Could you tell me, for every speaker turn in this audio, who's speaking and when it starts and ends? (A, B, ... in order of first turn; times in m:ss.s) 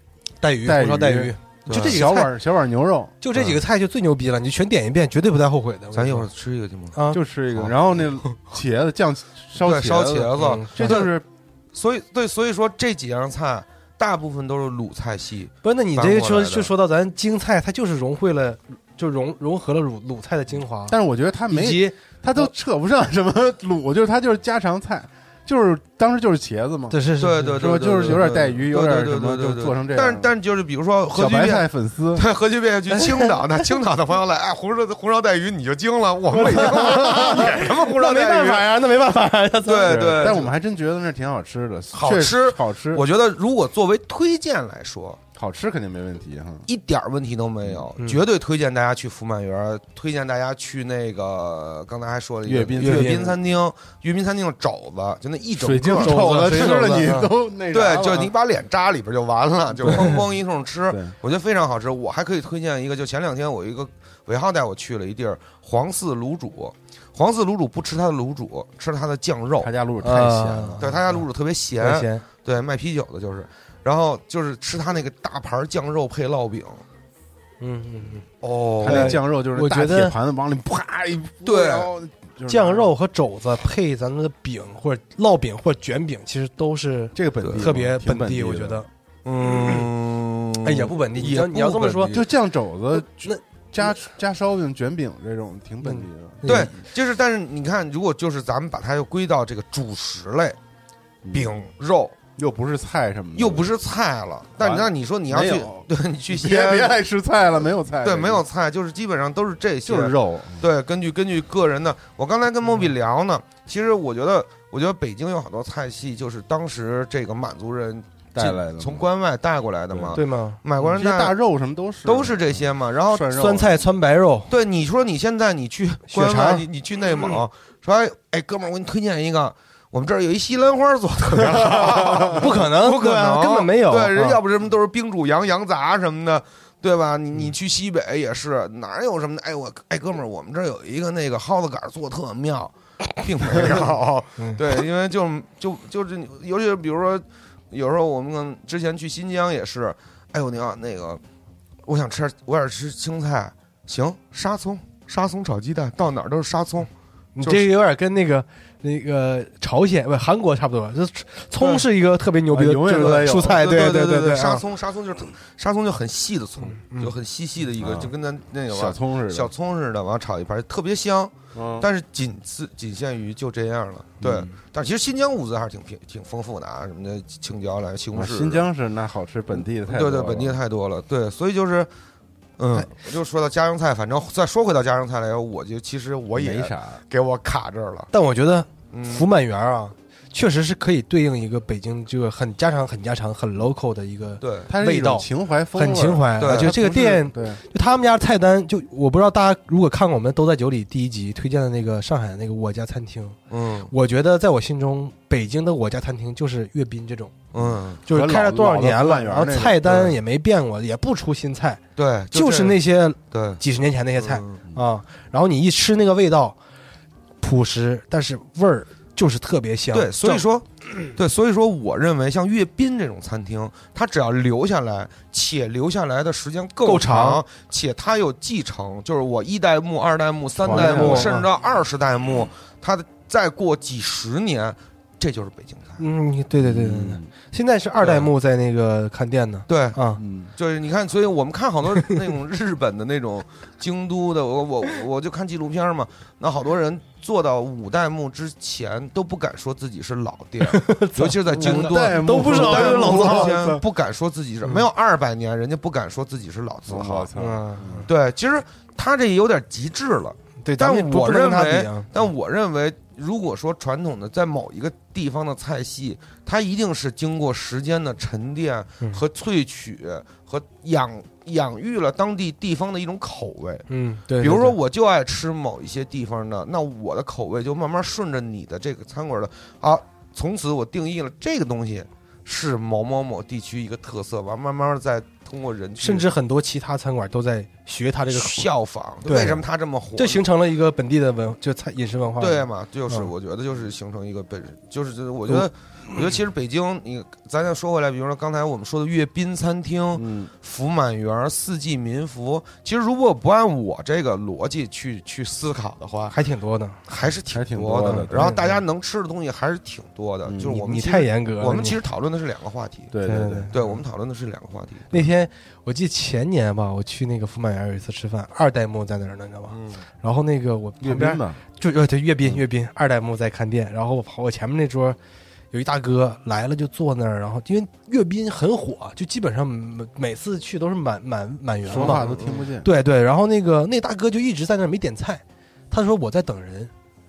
0:00.4-0:02.3 A
0:00.6-0:03.2 B
0:01.7-0:02.0 C
0:03.2-0:06.3 A
0:05.9-0:07.0 C
0:06.9-0:07.2 A
0:07.1-0:11.2 B
0:09.6-0:11.2 C
0:10.4-0:11.1 A
0:11.7-0:16.7 C
0:15.6-0:21.0 A
0:20.9-0:27.0 B
0:21.5-0:22.5 A
0:26.9-0:28.3 A
0:27.2-0:38.7 C
0:27.6-0:30.3 B
0:31.1-0:32.3 B
0:32.9-0:33.3 A
0:36.3-0:40.2 A
0:36.6-0:37.1 B
0:39.6-0:40.5 C
0:39.8-0:43.0 B
0:41.9-0:45.2 C
0:45.4-0:46.7 B
0:46.7-0:57.1 C
0:52.4-0:53.4 B
0:52.8-0:53.3 A
0:55.6-0:58.3 B
0:56.0-0:57.3 A
0:57.7-1:09.7 C
0:59.8-1:00.2 B
0:59.9-1:00.2 A
1:09.6-1:10.8 B
1:10.0-1:11.2 A
1:10.8-1:16.8 C
1:11.8-1:12.2 A
1:17.6-1:18.2 A
1:18.4-1:19.2 C
1:18.8-1:22.9 B
1:18.8-1:20.2 A
1:21.4-1:21.9 C
1:22.5-1:28.9 A
1:27.2-1:28.9 B
1:27.4-1:27.7 C
1:29.2-1:32.2 C
1:29.4-1:29.8 A
1:30.6-1:32.2 A
1:32.1-1:36.6 B
1:32.9-1:33.9 A
1:35.8-1:36.7 A
1:36.4-1:40.6 C
1:41.2-1:41.6 B
1:41.3-1:42.2 C
1:42.4-1:43.7 B
1:43.4-1:47.0 C
1:44.6-1:48.4 B
1:48.0-2:01.4 C
1:49.8-1:50.7 B
1:58.4-1:59.1 B
1:59.9-2:00.2 B
2:00.1-2:00.6 A
2:00.8-2:03.8 B
2:02.0-2:03.4 C
2:03.3-2:04.5 A
2:04.5-2:31.2 C
2:06.1-2:06.6 A
2:11.4-2:12.5 B
2:12.4-2:14.4 A
2:31.9-2:36.9 C
2:37.4-2:44.6 A
2:37.4-2:37.7 C
2:42.5-2:43.6 B
2:43.0-2:58.6 C
2:46.7-2:47.1 A
2:47.8-2:48.1 B
2:48.7-2:49.5 B
2:51.5-2:51.9 B
2:54.2-2:54.5 B
2:58.1-3:00.6 B
2:59.5-3:01.9 C
3:02.6-3:08.1 C
3:06.3-3:07.0 B
3:08.1-3:23.4 A
3:08.9-3:09.3 C
3:14.4-3:14.7 C
3:14.7-3:17.6 B
3:16.4-3:16.8 C
3:23.5-3:23.9 C
3:23.9-3:27.3 A
3:27.5-3:28.0 C
3:27.6-3:30.1 B
3:28.1-3:31.8 A
3:32.0-3:32.8 C
3:32.3-3:36.6 A
3:33.3-3:33.6 C
3:34.2-3:34.6 C
3:37.4-3:40.4 A
3:39.9-3:56.0 C
3:46.8-3:47.4 A
3:50.6-3:51.4 B
3:50.7-3:51.5 A
3:56.0-4:00.2 A
3:56.6-3:57.3 B
3:58.0-3:58.3 C
3:59.7-4:00.0 C
4:00.2-4:00.5 B
4:00.6-4:17.3 C
4:10.7-4:13.6 A
4:11.5-4:13.8 B
4:16.9-4:18.1 B
4:17.4-4:18.0 A
4:18.1-4:33.9 C
4:20.6-4:22.1 A
4:33.9-4:34.8 A
4:34.4-4:46.3 C
4:46.0-4:48.7 A
4:48.3-4:50.4 C
4:49.2-4:49.6 A
4:50.2-4:53.3 A
4:52.4-5:06.4 C
5:00.2-5:00.5 B
5:06.3-5:07.0 A
5:07.1-5:13.1 C
5:07.5-5:08.5 B
5:08.1-5:08.8 A
5:10.4-5:10.7 B
5:10.7-5:12.0 A
5:13.1-5:13.7 B
5:13.2-5:13.9 A
5:13.7-5:15.2 C
5:15.1-5:25.2 A
5:19.7-5:20.0 C
5:21.0-5:21.6 B
5:25.7-5:32.2 A
5:31.9-5:32.9 B
5:31.9-5:32.7 C
5:32.8-5:36.9 A